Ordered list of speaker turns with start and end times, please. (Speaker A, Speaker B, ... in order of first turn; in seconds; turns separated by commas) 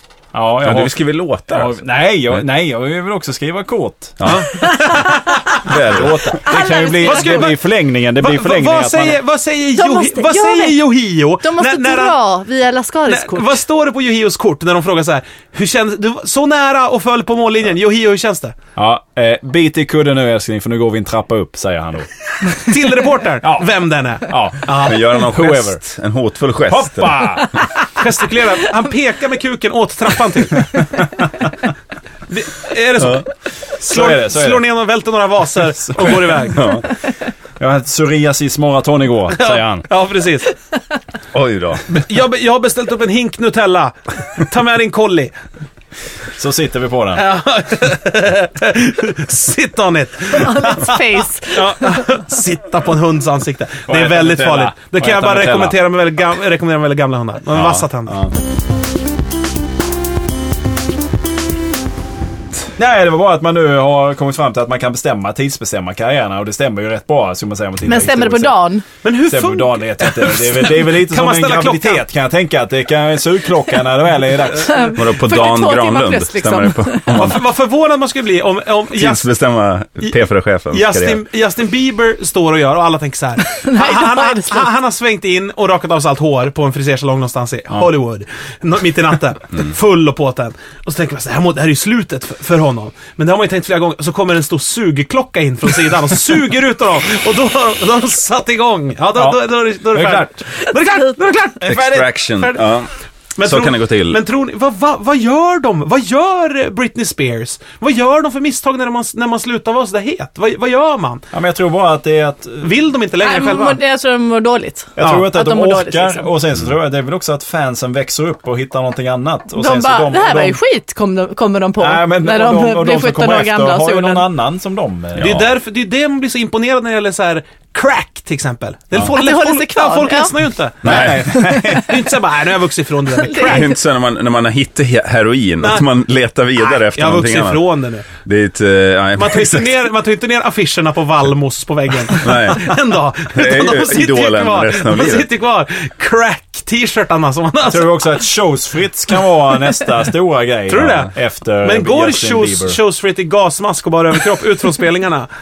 Speaker A: 0.3-0.9, Speaker B: 0.6-2.4, Speaker A: 1.5-4.4, Speaker B: 4.2-4.7, Speaker C: 4.2-5.6, Speaker D: 4.7-4.9, Speaker B: 5.6-6.4, Speaker A: 5.7-9.2, Speaker D: 6.4-7.5, Speaker C: 7.0-7.6, Speaker C: 8.2-12.2, Speaker D: 9.7-10.8, Speaker D: 11.4-13.6, Speaker C: 13.1-18.6, Speaker A: 18.8-22.7, Speaker C: 22.6-25.4, Speaker A: 23.4-23.7, Speaker A: 24.3-25.8, Speaker B: 24.8-27.4, Speaker A: 26.7-27.5, Speaker C: 27.9-30.9, Speaker C: 32.3-33.3, Speaker A: 33.8-34.6, Speaker C: 33.8-36.8, Speaker A: 35.9-36.4, Speaker B: 36.0-36.9, Speaker A: 37.6-39.9, Speaker C: 39.3-40.5, Speaker B: 41.3-42.0, Speaker C: 41.9-45.4, Speaker A: 46.4-47.2, Speaker C: 47.1-58.1, Speaker D: 50.3-52.1, Speaker A: 53.9-55.8, Speaker B: 57.5-58.4, Speaker A: 62.8-68.6, Speaker D: 67.8-68.8, Speaker C: 69.0-72.0, Speaker A: 69.2-74.8, Speaker D: 74.5-77.2, Speaker B: 74.9-77.4, Speaker C: 77.1-79.3, Speaker B: 78.9-81.2, Speaker C: 80.7-101.9, Speaker D: 83.4-84.7, Speaker A: 99.2-100.3, Speaker A: 101.6-102.1, Speaker B: 101.7-102.9, Speaker C: 103.4-111.2, Speaker B: 103.4-104.2, Speaker A: 111.3-112.7, Speaker C: 112.6-113.8, Speaker D: 113.2-116.3, Speaker A: 115.0-120.6, Speaker C: 115.0-115.3, Speaker D: 119.5-124.3, Speaker A: 121.8-125.4, Speaker B: 125.2-125.5, Speaker C: 125.2-133.7, Speaker D: 129.1-130.3, Speaker B: 130.8-131.2, Speaker A: 130.8-132.1, Speaker D: 133.2-133.8, Speaker B: 133.4-139.8, Speaker C: 135.6-135.8, Speaker C: 136.6-138.1, Speaker C: 139.2-147.9, Speaker B: 142.1-142.7, Speaker B: 143.3-145.3, Speaker A: 147.7-152.8, Speaker C: 150.7-155.3